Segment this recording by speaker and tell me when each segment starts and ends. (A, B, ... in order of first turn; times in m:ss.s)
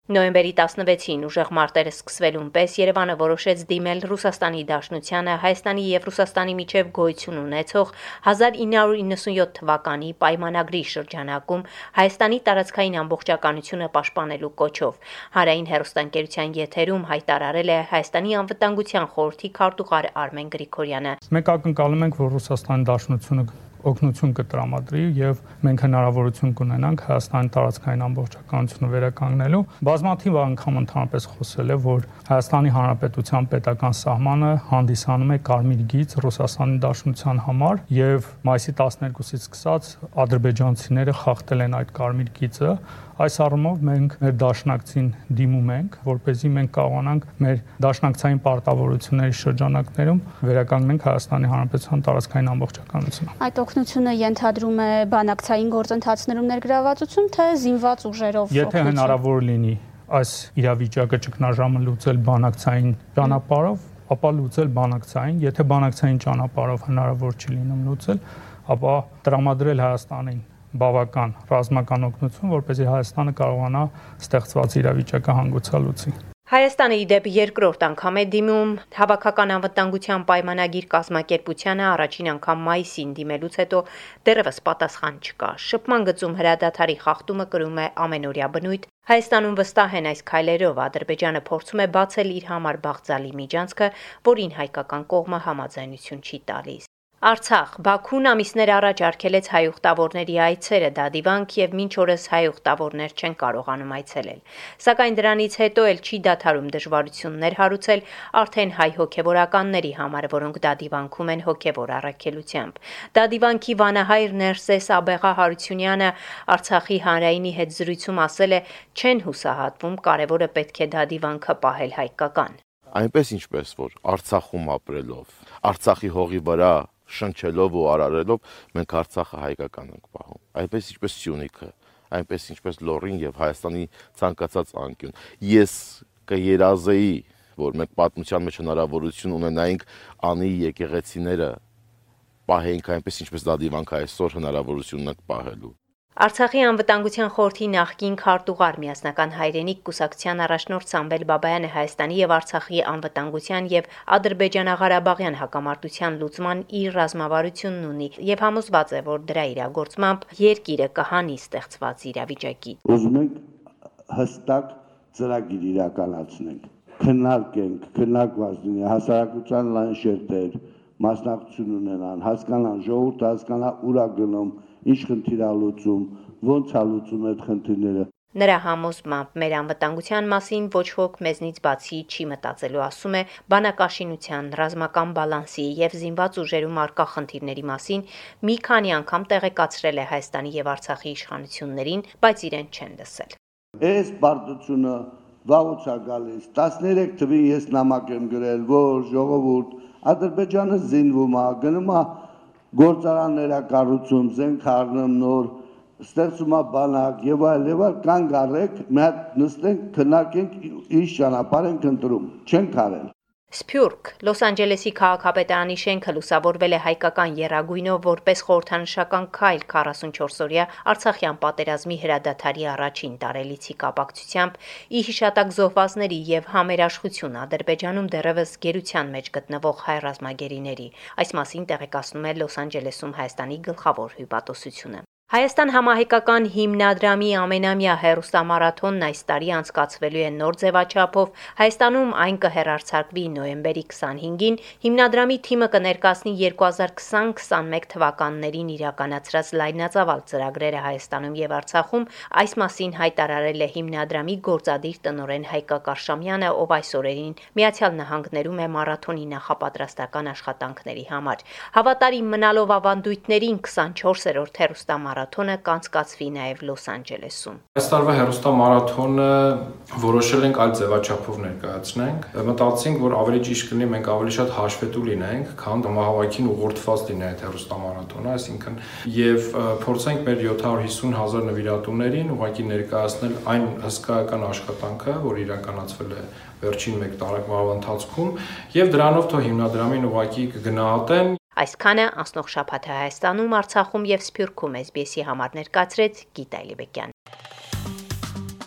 0:00.1-0:21.2 A
0:21.3-0:53.3 B
0:53.4-0:59.2 C
0:58.5-1:16.1 B
1:16.5-2:02.6 A
2:02.9-2:21.6 D
2:22.5-2:25.7 D
2:26.2-2:42.8 A
2:42.9-2:43.4 E
2:44.1-2:58.1 E
2:58.4-3:13.4 A
3:13.8-3:22.1 E
3:22.7-3:33.1 E
3:33.5-4:27.6 A
4:27.8-4:51.4 F
4:51.6-4:57.1 A